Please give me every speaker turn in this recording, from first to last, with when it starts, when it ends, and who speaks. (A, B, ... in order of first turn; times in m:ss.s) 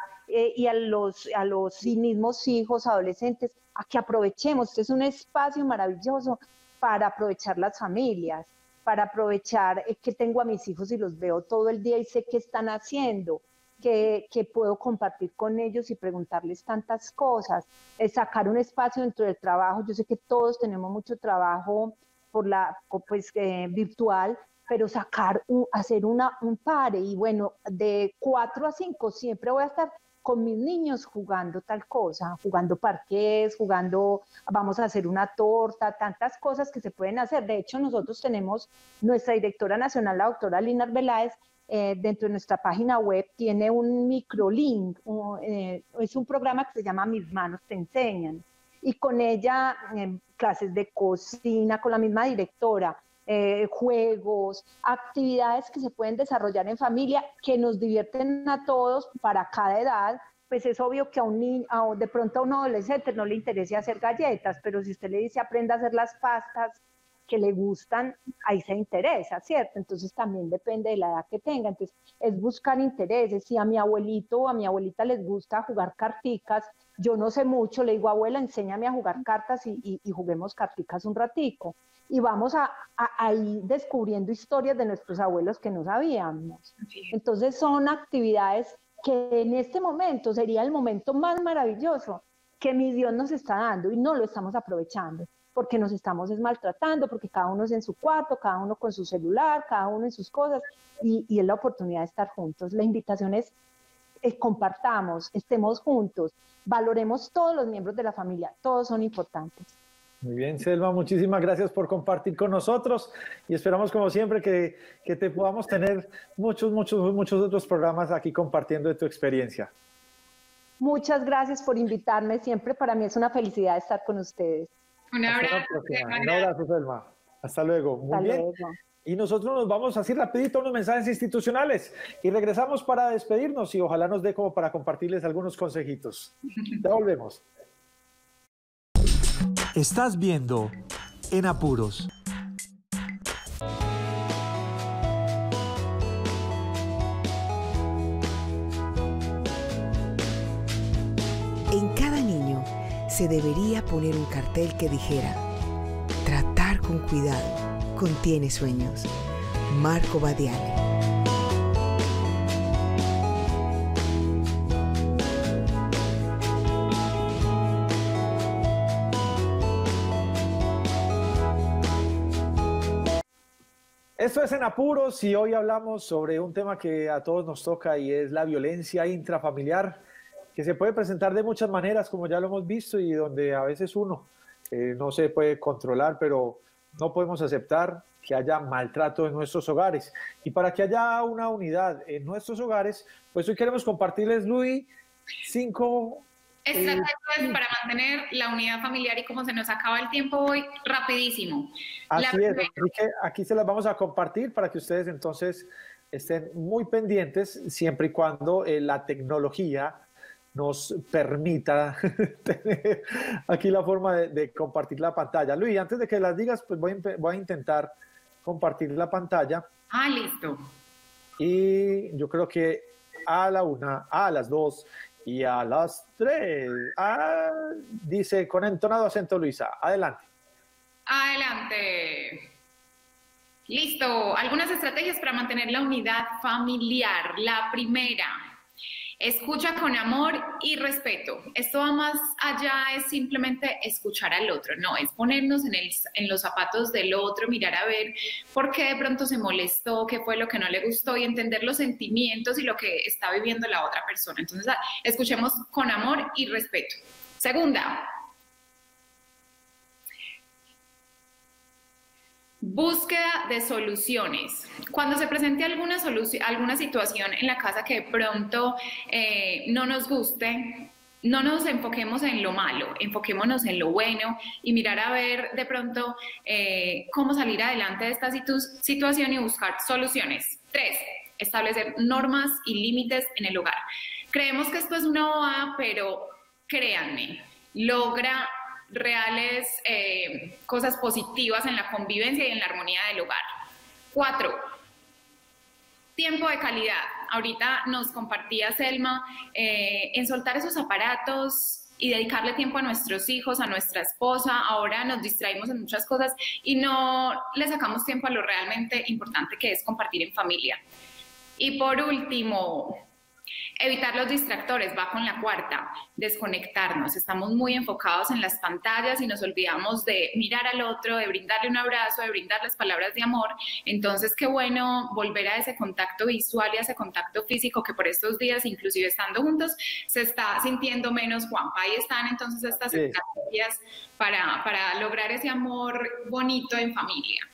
0:00.3-1:43.5 A
1:44.2-1:49.7 A
1:50.2-1:59.7 B
2:00.8-2:04.7 A
2:05.1-2:06.5 C
2:05.3-2:08.5 B
2:08.1-2:08.8 A
2:09.0-2:17.4 B
2:19.8-2:20.8 B
2:21.3-2:22.1 B
2:31.7-2:35.4 D
2:36.2-2:39.1 D
2:39.7-2:40.8 D
2:54.2-3:00.0 B
3:00.6-3:14.9 B
3:15.4-3:17.6 B
3:16.7-3:22.8 C
3:22.1-3:30.0 B
3:30.5-3:37.9 B
3:38.4-3:39.6 B
3:39.9-3:40.6 C
3:41.4-3:50.2 B
3:51.1-3:52.5 C
3:53.7-3:58.4 C
3:59.2-4:18.1 C
4:22.6-4:43.8 C
4:44.3-4:53.4 C
4:54.1-4:54.6 C
4:56.2-5:10.8 C
5:11.6-5:13.0 C
5:13.8-5:37.5 C
5:32.9-5:33.2 B